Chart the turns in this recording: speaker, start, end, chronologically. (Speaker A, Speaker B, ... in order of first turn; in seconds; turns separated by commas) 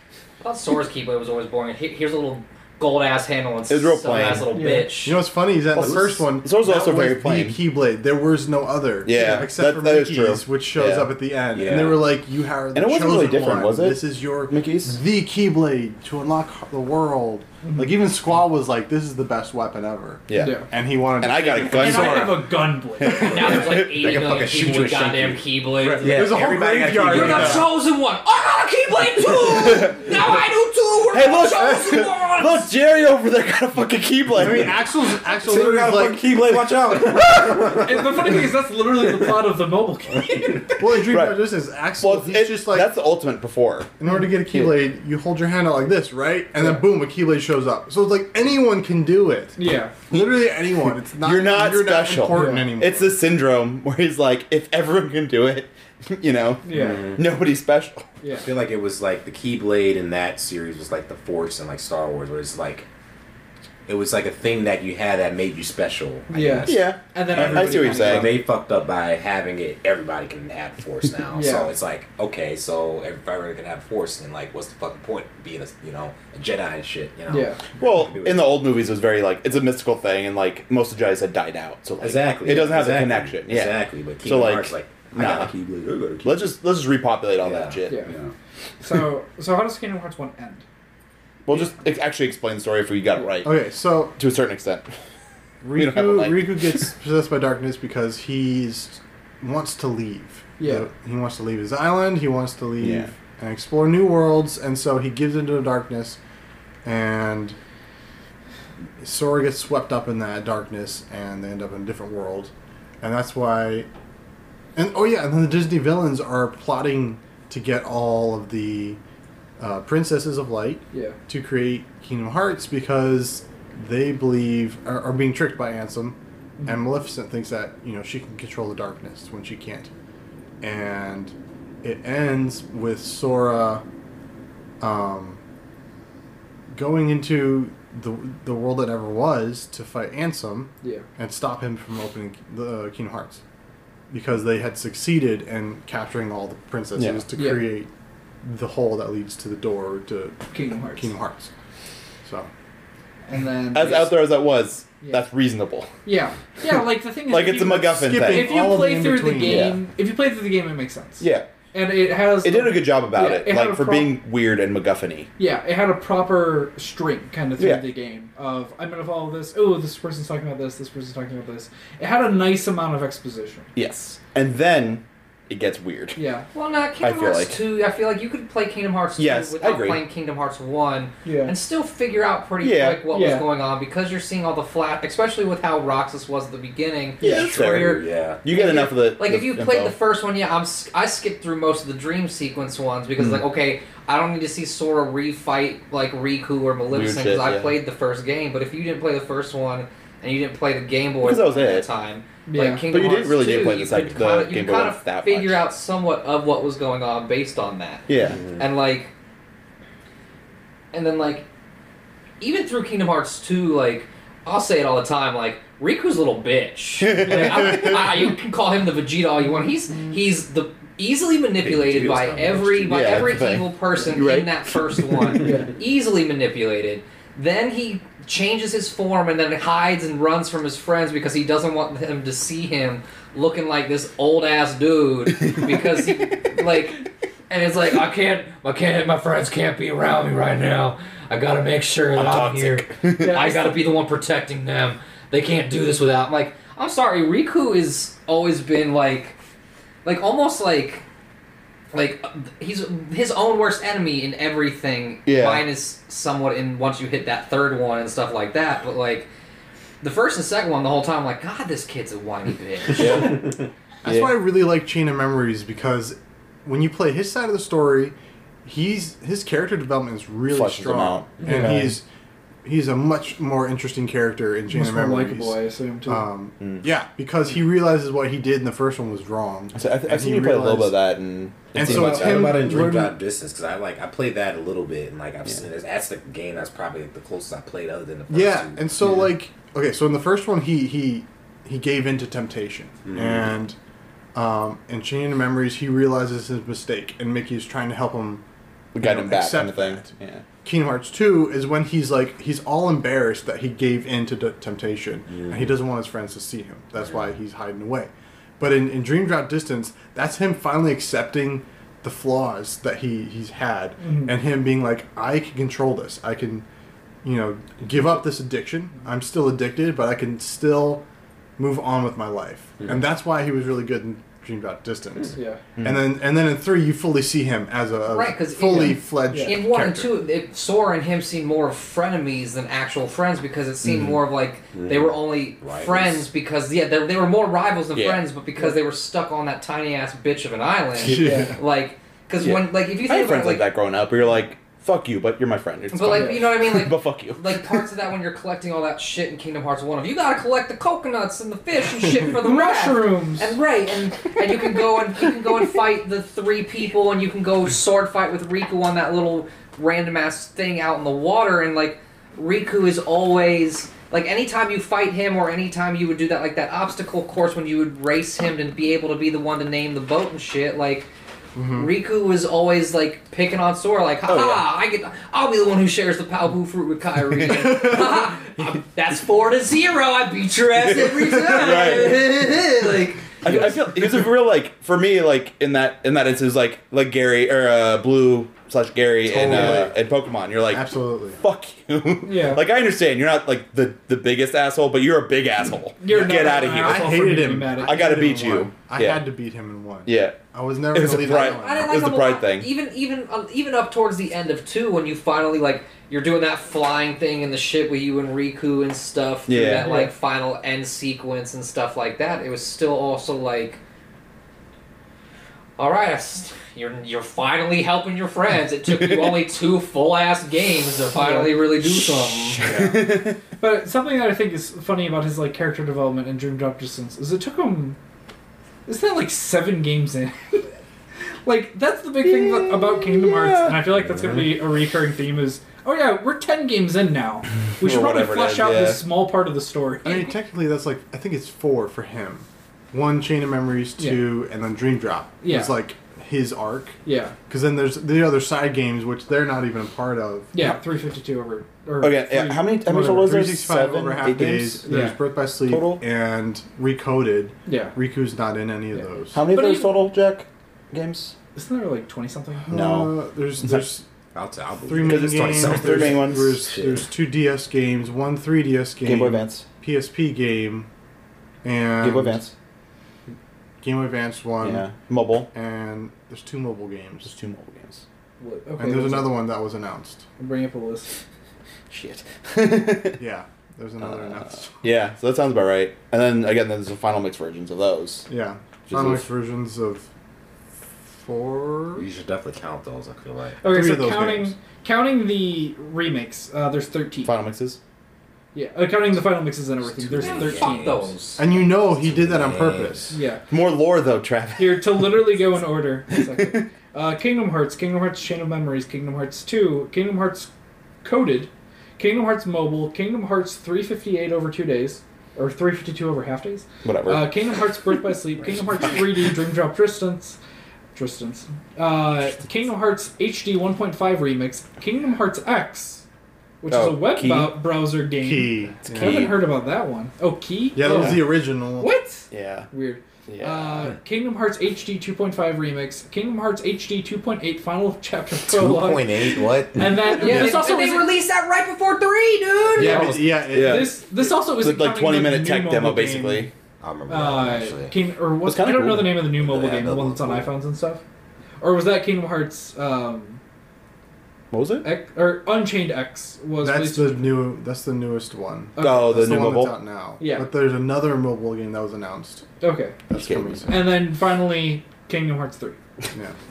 Speaker A: 0.4-5.2, Speaker B: 3.7-4.5, Speaker C: 4.2-4.4, Speaker D: 4.5-4.9, Speaker E: 5.0-22.4, Speaker B: 5.8-7.6, Speaker C: 5.8-6.2, Speaker B: 9.0-11.1, Speaker D: 9.1-9.5, Speaker C: 11.5-12.1, Speaker B: 12.7-15.0, Speaker D: 17.6-17.9, Speaker B: 20.3-22.5, Speaker D: 20.4-20.7, Speaker D: 21.6-23.6, Speaker B: 23.0-23.9, Speaker A: 23.2-32.7, Speaker C: 23.2-27.7, Speaker E: 25.8-27.7, Speaker B: 29.5-30.2, Speaker B: 31.1-34.8, Speaker E: 34.3-36.3, Speaker C: 35.3-38.5, Speaker D: 37.8-41.1, Speaker C: 40.3-40.6, Speaker E: 40.8-42.9, Speaker B: 41.1-41.5, Speaker B: 42.0-44.8, Speaker E: 44.0-53.2, Speaker D: 46.6-46.9, Speaker D: 49.6-49.9, Speaker B: 50.1-50.5, Speaker B: 51.2-58.1, Speaker D: 52.3-52.7, Speaker D: 56.6-57.1, Speaker C: 56.7-57.3, Speaker D: 58.2-58.5, Speaker C: 58.3-62.9, Speaker C: 63.9-78.4, Speaker D: 66.3-68.4, Speaker B: 66.7-68.4, Speaker D: 71.3-71.7, Speaker D: 77.3-77.6, Speaker B: 77.8-85.5, Speaker C: 82.0-86.4, Speaker B: 86.2-88.0, Speaker C: 87.4-88.3, Speaker D: 87.9-88.1, Speaker D: 88.8-90.7, Speaker B: 91.5-93.6, Speaker E: 93.4-94.2, Speaker B: 94.2-94.9, Speaker E: 95.6-106.2, Speaker B: 95.8-96.9, Speaker D: 100.6-100.9, Speaker B: 102.8-103.1, Speaker E: 106.8-107.6, Speaker E: 109.0-113.9, Speaker E: 114.8-119.0, Speaker E: 119.6-129.9, Speaker D: 120.9-121.2, Speaker D: 126.6-126.8, Speaker E: 130.6-133.8, Speaker E: 134.8-135.4, Speaker E: 136.7-143.4, Speaker E: 144.1-147.9, Speaker B: 147.0-147.2, Speaker D: 147.4-147.7, Speaker E: 148.4-151.5, Speaker D: 150.5-151.1, Speaker E: 152.2-152.5, Speaker D: 153.3-154.2, Speaker B: 153.7-155.9, Speaker D: 156.1-164.2, Speaker B: 157.3-158.6, Speaker E: 157.9-159.7, Speaker B: 159.4-159.8, Speaker B: 161.2-161.5, Speaker B: 162.4-165.3, Speaker D: 165.4-173.7, Speaker B: 167.6-167.8, Speaker B: 173.8-176.2, Speaker D: 176.2-176.5, Speaker A: 176.5-209.1, Speaker B: 177.0-177.6, Speaker B: 179.2-180.0, Speaker D: 181.2-181.5, Speaker B: 182.6-183.0, Speaker D: 183.1-183.4, Speaker C: 187.2-188.4, Speaker B: 187.2-189.9, Speaker B: 196.9-197.7, Speaker B: 201.2-201.9, Speaker D: 202.5-202.8, Speaker B: 202.9-205.6, Speaker B: 208.1-208.4, Speaker C: 208.3-208.7, Speaker A: 210.9-211.5, Speaker A: 212.4-249.4, Speaker B: 217.0-218.0, Speaker D: 217.2-218.0, Speaker C: 221.6-223.5, Speaker B: 222.9-225.4, Speaker D: 225.4-225.7, Speaker B: 235.4-236.3, Speaker B: 242.2-243.4, Speaker D: 243.2-243.6, Speaker A: 250.1-251.0, Speaker A: 251.9-259.3, Speaker B: 255.3-255.6, Speaker A: 260.0-263.3, Speaker B: 262.9-263.4, Speaker E: 264.0-272.1, Speaker B: 264.0-264.4, Speaker B: 270.5-272.0, Speaker C: 271.4-271.9, Speaker E: 272.6-281.0, Speaker D: 274.7-276.3, Speaker B: 276.6-276.9, Speaker B: 279.7-282.5, Speaker E: 281.7-283.2, Speaker C: 281.8-289.2, Speaker D: 281.9-282.7, Speaker E: 288.3-293.8, Speaker C: 293.1-293.5, Speaker E: 294.4-298.4, Speaker B: 298.9-300.4, Speaker E: 299.0-300.1, Speaker E: 300.6-316.6, Speaker C: 305.3-305.7, Speaker D: 314.0-314.4, Speaker E: 317.2-321.0, Speaker E: 321.6-330.1, Speaker D: 325.3-325.6, Speaker B: 325.8-326.0, Speaker A: 328.1-343.7, Speaker D: 329.3-329.6, Speaker C: 334.7-336.2, Speaker B: 338.0-338.2, Speaker E: 341.0-341.6, Speaker D: 341.1-341.6, Speaker B: 342.4-347.8, Speaker A: 345.9-371.1, Speaker D: 346.1-346.4, Speaker D: 352.2-353.6, Speaker E: 371.6-371.9, Speaker A: 371.7-383.6, Speaker B: 374.3-374.6, Speaker B: 377.3-378.0, Speaker B: 380.9-382.3, Speaker E: 381.3-382.3, Speaker B: 383.4-397.3, Speaker E: 389.2-389.9, Speaker E: 390.7-391.4, Speaker D: 392.2-392.7, Speaker D: 396.0-398.1, Speaker E: 396.1-401.9, Speaker B: 397.8-399.2, Speaker B: 400.1-400.4, Speaker B: 400.9-402.7, Speaker A: 401.1-413.8, Speaker B: 409.5-409.9, Speaker D: 409.7-410.1, Speaker A: 415.8-422.6, Speaker B: 419.0-419.4, Speaker D: 421.1-421.7, Speaker B: 422.6-423.4, Speaker E: 422.6-422.9, Speaker D: 423.6-428.0, Speaker D: 428.9-430.7, Speaker D: 431.4-440.3, Speaker B: 432.2-433.8, Speaker C: 434.2-434.5, Speaker B: 437.8-439.0, Speaker E: 440.1-447.0, Speaker D: 444.0-444.3, Speaker D: 445.4-445.8, Speaker D: 447.1-447.4, Speaker E: 447.5-450.8, Speaker D: 450.5-452.7, Speaker B: 452.0-456.0, Speaker E: 452.9-459.4, Speaker D: 454.9-455.2, Speaker D: 457.7-458.0, Speaker D: 458.9-460.0, Speaker B: 459.3-461.3, Speaker D: 461.6-462.7, Speaker E: 462.7-464.1, Speaker B: 462.7-463.9, Speaker C: 464.3-467.1, Speaker E: 464.9-470.9, Speaker B: 465.0-466.6, Speaker B: 469.0-469.6, Speaker E: 471.6-472.4, Speaker B: 472.0-472.5, Speaker E: 473.8-474.9, Speaker B: 474.6-475.5, Speaker E: 475.5-477.3, Speaker B: 477.2-478.0, Speaker D: 478.4-479.4, Speaker E: 478.8-480.2, Speaker D: 480.4-481.1, Speaker B: 481.9-483.2, Speaker E: 483.2-484.8, Speaker B: 484.8-488.3, Speaker E: 488.3-490.1, Speaker C: 488.9-489.3, Speaker E: 491.2-492.1, Speaker C: 492.0-493.6, Speaker D: 493.6-497.4, Speaker E: 493.6-494.6, Speaker B: 497.2-497.8, Speaker D: 498.5-501.0, Speaker C: 499.9-501.1, Speaker A: 500.2-501.4, Speaker E: 501.4-503.1, Speaker C: 501.7-503.1, Speaker D: 503.1-503.4, Speaker B: 503.5-505.4, Speaker D: 504.6-510.5, Speaker B: 506.1-506.7, Speaker D: 511.0-520.4, Speaker B: 516.8-517.3, Speaker D: 520.9-526.0, Speaker D: 526.6-541.1, Speaker B: 526.7-527.6, Speaker E: 528.2-529.4, Speaker B: 528.9-529.4, Speaker E: 530.8-531.9, Speaker B: 530.9-531.2, Speaker B: 532.3-532.7, Speaker B: 533.3-533.9, Speaker C: 538.4-540.2, Speaker A: 540.2-543.1, Speaker E: 540.2-540.6, Speaker C: 542.8-543.5, Speaker E: 542.8-544.0, Speaker B: 543.5-544.0, Speaker D: 543.5-546.5, Speaker B: 544.6-546.5, Speaker C: 546.8-548.0, Speaker D: 547.1-551.0, Speaker B: 548.5-549.2, Speaker C: 549.3-550.5, Speaker D: 551.6-553.4, Speaker B: 554.5-554.9, Speaker D: 554.8-557.4, Speaker E: 556.6-562.5, Speaker D: 558.8-559.6, Speaker B: 558.8-559.8, Speaker D: 560.2-560.5, Speaker D: 562.6-563.0, Speaker E: 563.1-563.9, Speaker B: 563.1-563.7, Speaker D: 563.7-565.8